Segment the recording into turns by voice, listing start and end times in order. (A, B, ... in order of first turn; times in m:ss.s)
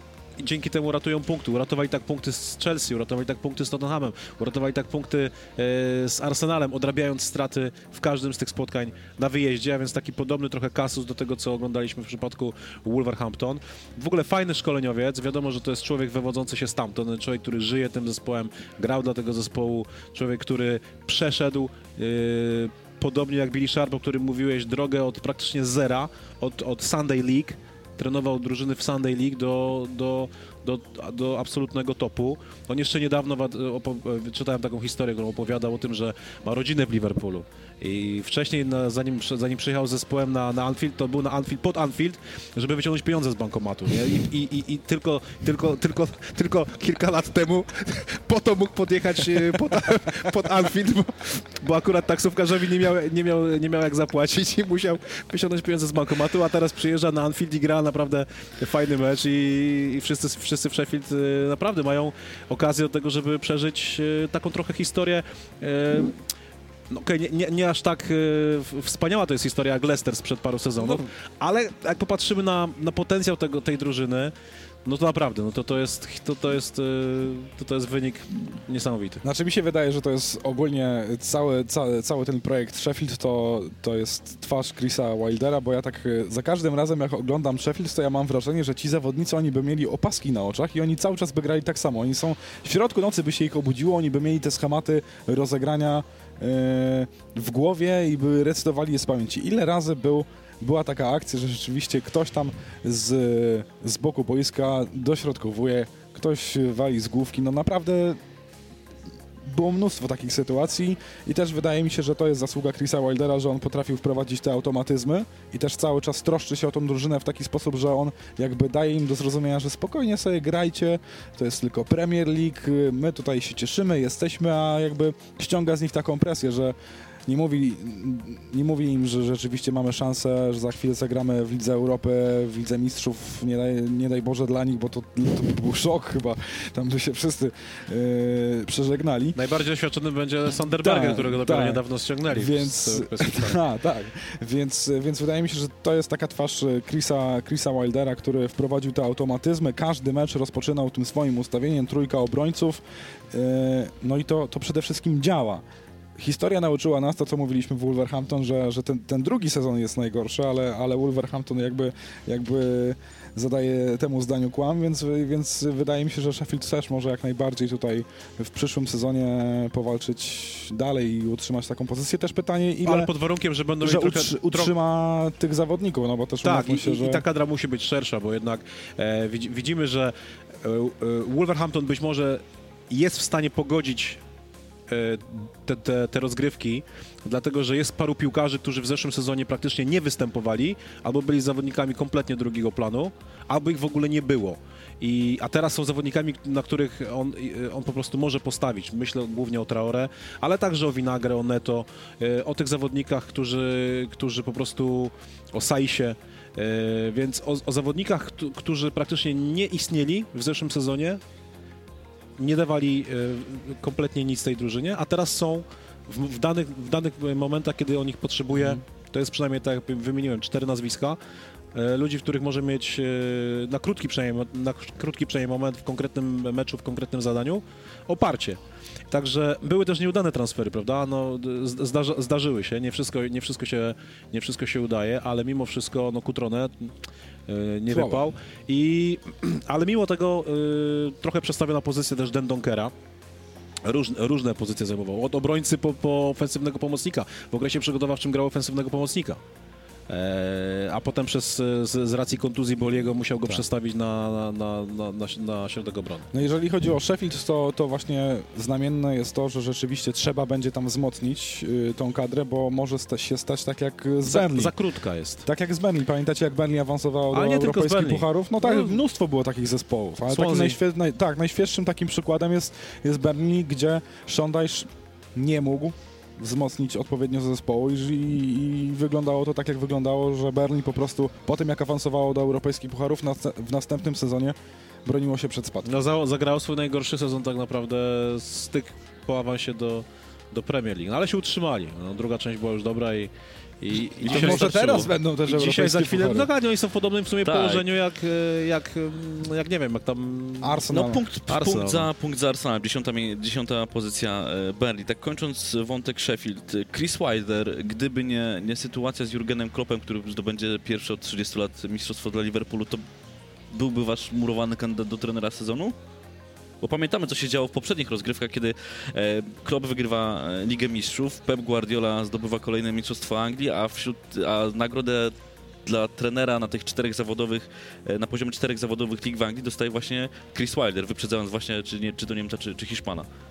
0:00.4-1:06.2 A
1:06.9-1:14.3 A
1:14.8-1:19.2 A
1:19.2-1:48.2 B
1:49.4-2:06.8 B
2:07.3-2:19.4 B
2:19.4-2:23.6 A
2:20.7-2:35.6 B
2:36.2-2:53.1 B
2:52.8-2:54.7 A
2:53.8-2:57.2 B
2:56.4-3:04.2 A
3:04.9-3:31.2 A
3:32.4-3:41.2 A
3:41.7-3:48.6 A
3:49.1-3:56.9 A
3:57.5-4:02.9 A
3:57.9-3:58.3 B
4:03.8-4:09.4 A
4:10.1-4:16.3 A
4:16.3-4:24.7 B
4:24.2-4:25.4 A
4:25.4-4:45.9 B
4:27.3-4:29.0 A
4:30.3-4:30.8 A
4:45.8-5:01.0 A
4:54.2-4:54.8 C
4:54.2-4:56.5 B
4:57.4-4:57.8 C
5:00.6-5:01.2 B
5:00.9-5:13.0 C
5:01.5-5:02.1 A
5:13.7-5:16.0 C
5:16.8-5:25.3 C
5:25.9-5:33.3 C